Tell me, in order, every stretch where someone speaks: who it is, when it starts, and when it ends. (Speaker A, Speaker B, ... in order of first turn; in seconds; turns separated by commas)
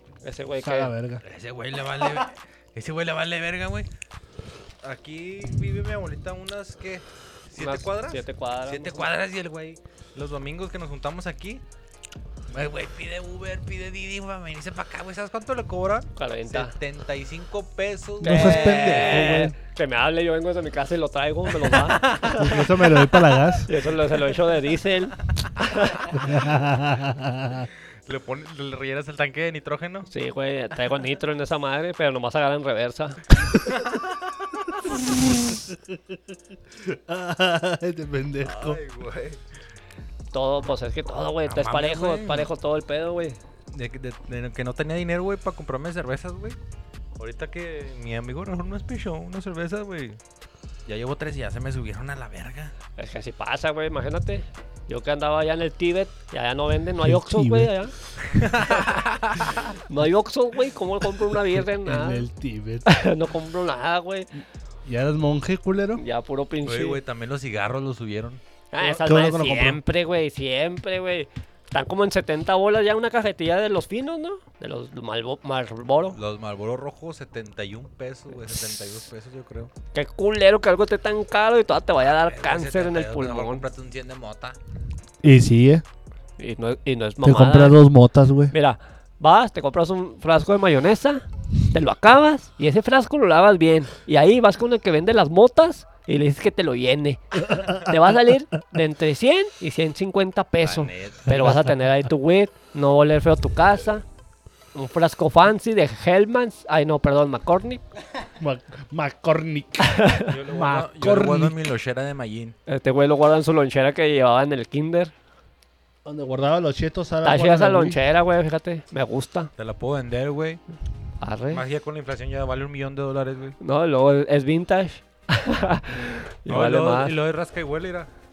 Speaker A: 0.2-0.9, Speaker B: 0.6-1.2, Speaker C: 1.2-3.9, Speaker C: 4.8-11.6, Speaker A: 7.6-9.1, Speaker C: 12.5-19.4, Speaker A: 16.2-16.8, Speaker B: 18.2-19.6, Speaker A: 18.2-22.6, Speaker C: 21.6-22.4, Speaker B: 22.3-23.7, Speaker A: 23.7-26.0, Speaker C: 25.9-26.2, Speaker B: 26.1-27.7, Speaker C: 28.1-30.1, Speaker A: 30.1-33.2, Speaker B: 35.4-36.2, Speaker B: 36.7-38.8, Speaker C: 38.4-39.4, Speaker A: 40.3-43.4, Speaker C: 41.5-42.5, Speaker C: 43.7-46.6, Speaker C: 47.2-50.2, Speaker C: 50.9-52.7, Speaker A: 53.0-57.9, Speaker B: 57.0-57.7, Speaker C: 58.3-59.8, Speaker A: 59.9-62.3, Speaker B: 61.8-62.9, Speaker A: 62.9-64.3, Speaker B: 64.8-66.0, Speaker A: 66.0-67.0, Speaker C: 66.7-68.4, Speaker A: 68.7-76.2, Speaker B: 68.8-69.8, Speaker C: 76.1-79.7, Speaker A: 79.9-83.7, Speaker C: 82.1-84.6, Speaker B: 85.2-85.8, Speaker A: 86.4-87.8, Speaker B: 87.2-88.5, Speaker A: 88.5-104.0, Speaker C: 100.6-101.6, Speaker A: 104.8-107.8, Speaker B: 108.4-111.5, Speaker A: 109.9-110.3, Speaker C: 110.3-112.5, Speaker A: 112.7-115.1, Speaker B: 116.0-118.0, Speaker A: 117.2-119.5, Speaker C: 119.6-120.6, Speaker A: 121.2-121.6, Speaker C: 121.5-123.6, Speaker A: 123.6-127.1, Speaker C: 126.5-128.1